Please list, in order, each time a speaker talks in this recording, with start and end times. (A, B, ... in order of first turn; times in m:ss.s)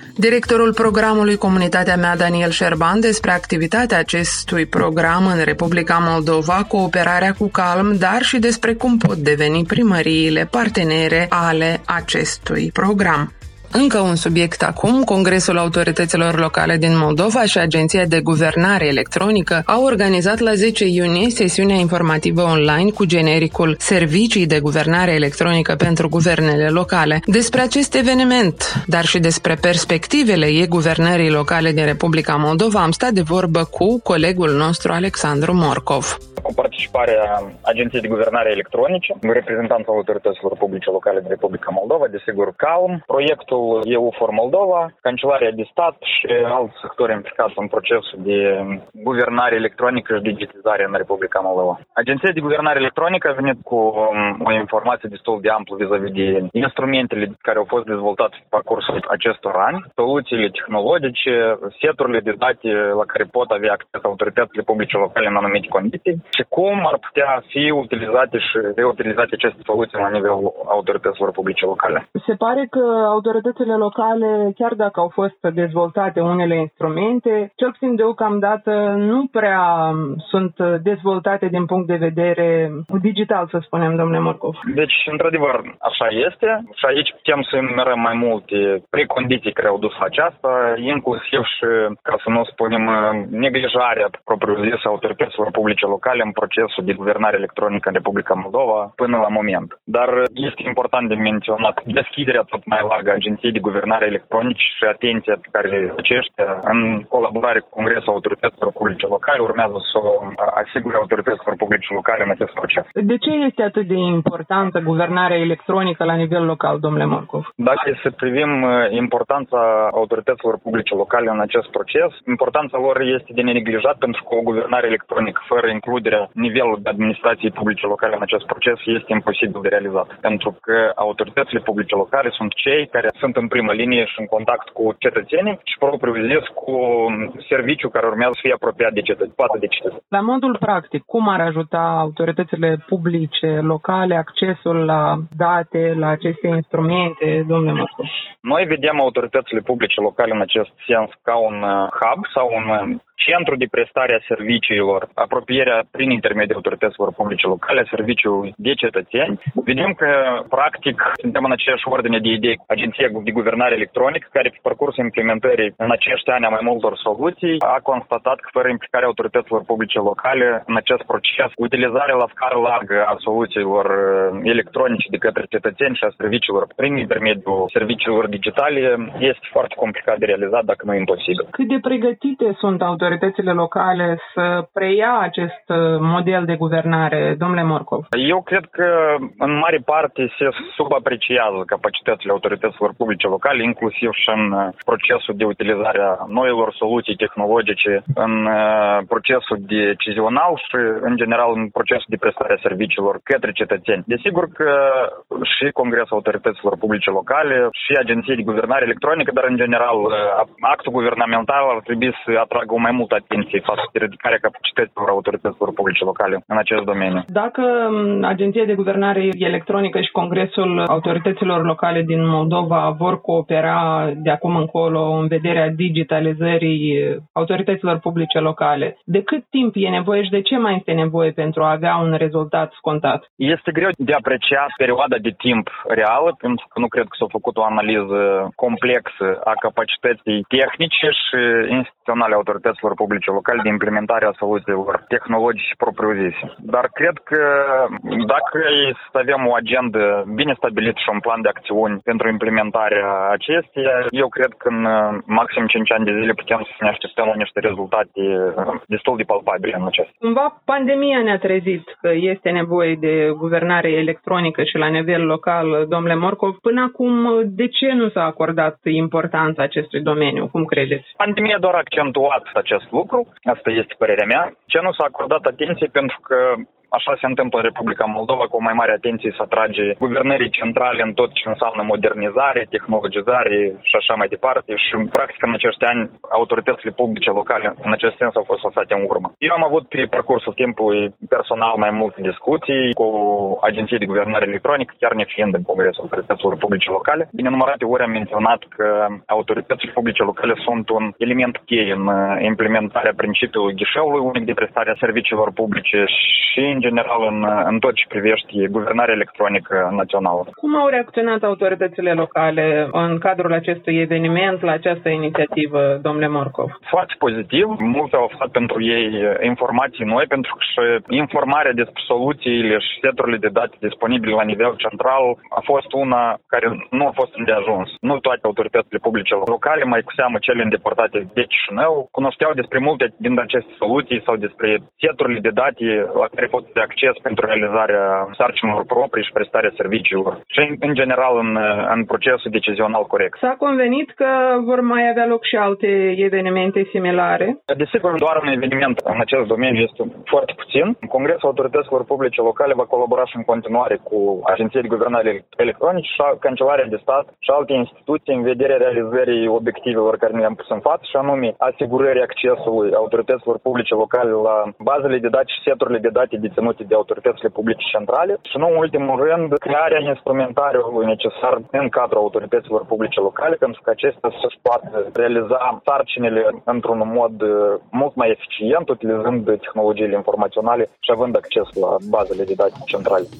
0:00.2-0:36.2 A
0:36.4-1:12.0 B
1:12.1-1:24.6 C
1:24.7-1:52.8 B
1:53.0-1:57.5 C
1:57.6-2:19.9 B
2:20.1-2:28.1 C
2:28.4-3:01.5 B
3:01.5-3:08.1 C
3:08.1-3:37.2 B
3:37.3-3:53.2 C
3:53.4-4:20.1 B
4:20.2-4:31.1 C
4:31.2-5:10.5 B
5:10.6-5:16.8 C
5:16.8-5:43.4 B
5:43.4-5:47.6 C
5:47.7-6:23.3 B